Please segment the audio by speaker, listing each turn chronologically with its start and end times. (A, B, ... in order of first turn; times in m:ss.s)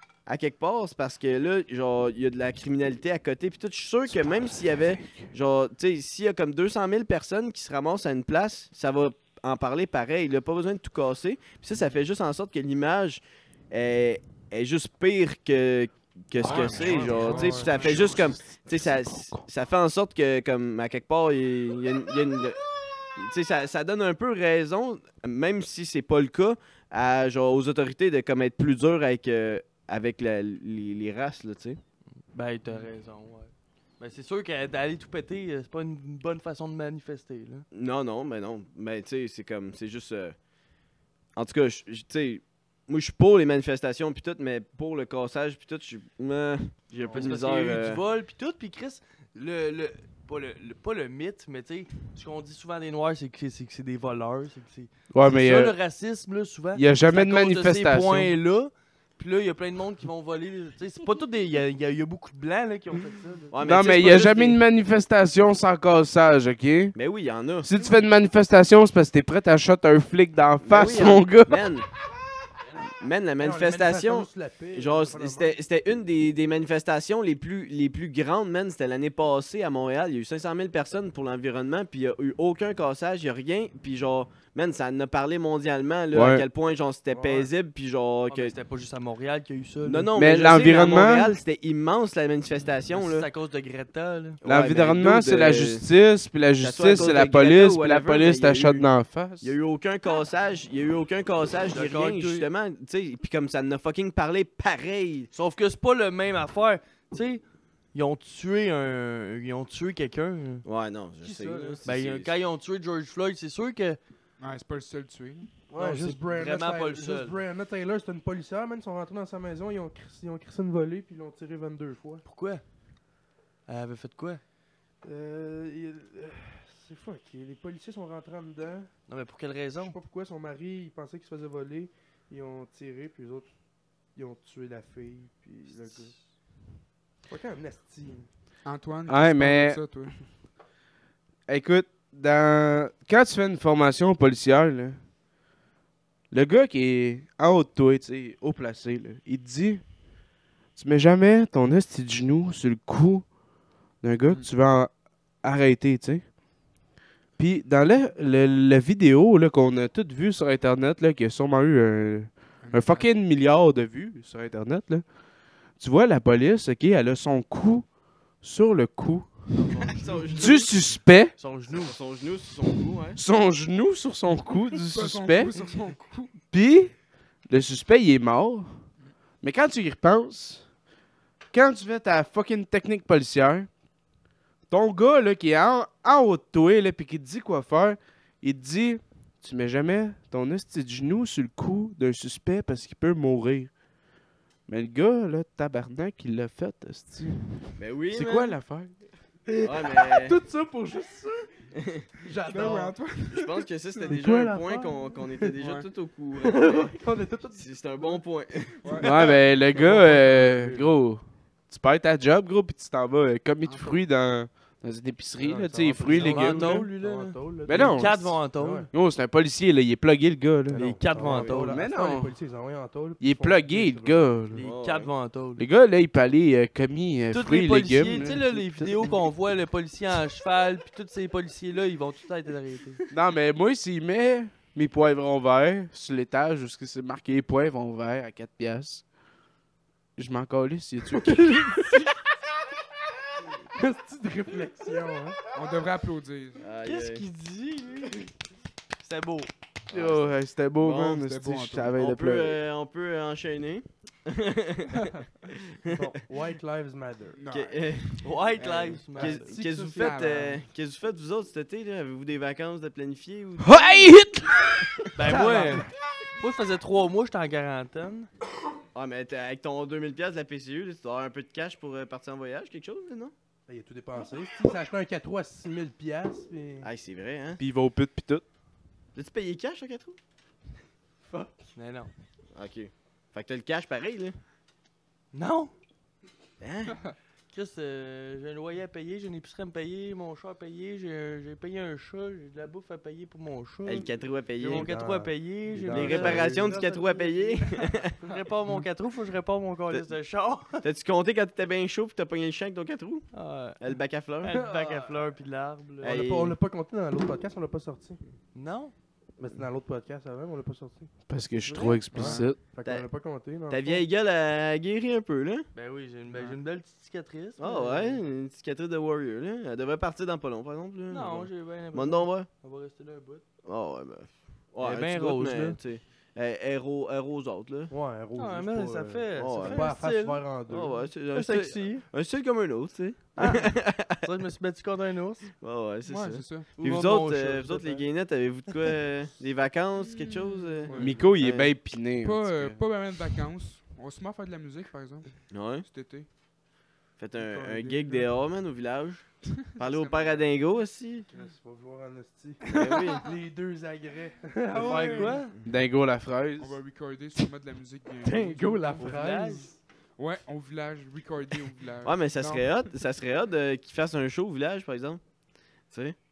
0:00.2-0:22.6 A
0:16.4-0:17.7 B
0:16.6-0:18.0 C
0:17.2-0:17.9 D
0:17.8-0:19.4 E
0:23.2-0:31.8 A
0:32.3-0:37.6 B
0:37.7-0:40.4 A
0:41.3-0:48.0 A
0:47.0-0:47.4 D
0:47.1-1:03.5 B
0:55.1-0:55.8 E
0:56.7-0:58.3 E
1:03.5-1:04.6 A
1:03.6-1:06.9 E
1:06.9-1:07.7 A
1:07.6-1:11.6 E
1:10.6-1:11.9 A
1:13.0-1:28.5 A
1:13.4-1:15.6 D
1:26.1-1:26.4 E
1:27.1-1:27.5 D
1:28.3-1:30.1 B
1:29.8-1:33.3 A
1:30.1-1:31.4 E
1:32.9-1:34.4 B
1:34.4-1:35.8 A
1:34.4-1:39.5 E
1:36.6-1:38.9 A
1:39.4-1:45.3 A
1:41.7-1:42.5 B
1:45.3-1:50.6 B
1:50.6-1:52.3 A
1:51.2-1:51.8 D
1:51.8-1:54.0 B
1:54.4-1:55.5 C
1:55.7-2:02.2 D
1:55.8-1:57.4 B
2:02.2-2:02.6 B
2:03.6-2:04.4 B
2:05.0-2:08.9 D
2:09.1-2:10.0 B
2:09.8-2:16.1 D
2:15.7-2:16.1 B
2:17.3-2:18.3 D
2:18.6-2:20.2 C
2:19.1-2:19.9 E
2:21.5-2:25.0 E
2:26.3-2:29.9 E
2:30.7-2:33.4 E
2:33.9-2:36.3 E
2:37.4-2:45.1 E
2:42.6-2:43.1 C
2:45.7-2:49.5 E
2:49.5-2:50.6 B
2:49.9-2:50.7 A
2:50.4-2:51.3 E
2:51.4-2:52.0 B
2:51.7-2:53.2 A
2:53.2-2:55.5 E
2:54.8-2:56.3 C
2:56.5-2:58.8 E
2:59.4-3:00.7 E
3:01.5-3:03.7 E
3:04.7-3:13.8 E
3:14.7-3:19.0 E
3:17.8-3:18.6 A
3:19.5-3:21.5 D
3:19.6-3:20.4 A
3:21.8-3:22.1 A
3:22.2-3:23.1 D
3:22.5-3:24.1 C
3:23.2-3:26.9 A
3:24.0-3:25.5 D
3:25.6-3:25.8 C
3:26.4-3:28.2 D
3:27.5-3:29.1 A
3:28.8-3:29.1 C
3:28.9-3:30.9 D
3:29.0-3:36.8 E
3:33.6-3:34.0 C
3:35.4-3:38.9 D
3:36.1-3:38.9 B
3:37.7-3:41.0 E
3:40.7-3:44.6 D
3:40.7-3:41.8 B
3:41.2-3:41.5 A
3:41.5-3:42.3 E
3:43.2-3:44.6 E
3:44.5-3:45.6 B
3:44.6-3:45.1 A
3:45.6-3:49.2 E
3:47.3-3:53.0 B
3:53.1-3:59.0 E
4:00.2-4:01.9 E
4:03.7-4:05.4 D
4:05.5-4:06.6 C
4:06.6-4:07.2 A
4:06.8-4:08.3 B
4:09.0-4:09.5 B
4:09.9-4:11.3 A
4:09.9-4:12.6 E
4:11.2-4:11.9 C
4:11.9-4:15.1 A
4:15.9-4:17.4 D
4:17.4-4:19.0 C
4:17.5-4:24.2 A
4:18.2-4:19.6 B
4:19.1-4:20.6 D
4:19.9-4:20.6 C
4:23.6-4:24.9 E
4:25.1-4:25.9 B
4:25.2-4:25.9 D
4:26.4-4:28.3 B
4:28.9-4:33.3 A
4:33.7-4:36.9 D
4:36.8-4:37.6 A
4:37.6-4:38.4 E
4:39.1-4:40.2 A
4:41.3-4:42.1 B
4:42.5-4:44.4 A
4:45.3-4:45.7 B
4:46.6-4:47.1 A
4:47.5-5:00.8 B
4:53.8-4:54.9 A
4:54.7-4:56.8 D
4:55.9-4:58.1 A
5:00.8-5:04.5 A
5:03.3-5:03.8 B
5:04.4-5:06.2 B
5:04.5-5:05.2 D
5:06.0-5:08.2 D
5:06.0-5:06.6 A
5:08.5-5:08.9 B
5:09.4-5:11.2 D
5:11.3-5:12.6 E
5:11.6-5:13.1 A
5:12.1-5:14.0 D
5:13.7-5:15.7 A
5:15.7-5:18.2 B
5:17.6-5:22.5 A
5:21.1-5:23.4 B
5:23.6-5:27.9 A
5:24.8-5:25.8 B
5:27.9-5:31.1 D
5:28.3-5:30.4 B
5:29.4-5:29.8 A
5:30.7-5:34.2 A
5:31.3-5:32.0 B
5:33.4-5:35.5 B
5:35.6-5:41.7 A
5:36.0-5:36.7 C
5:36.8-5:38.1 B
5:40.1-5:41.2 C
5:41.0-5:42.8 E
5:42.2-5:46.3 C
5:45.5-5:45.8 A
5:47.2-5:51.3 A
5:47.4-5:48.3 D
5:49.8-5:50.4 C
5:51.3-5:55.4 D
5:52.7-5:53.3 A
5:52.7-5:53.1 C
5:54.7-5:55.4 C
5:54.7-5:55.5 B
5:55.6-5:56.8 E
5:56.6-5:59.1 C
5:58.2-5:59.7 D
5:59.0-5:59.7 B
6:00.2-6:02.7 C
6:02.0-6:05.2 A
6:05.8-6:06.2 A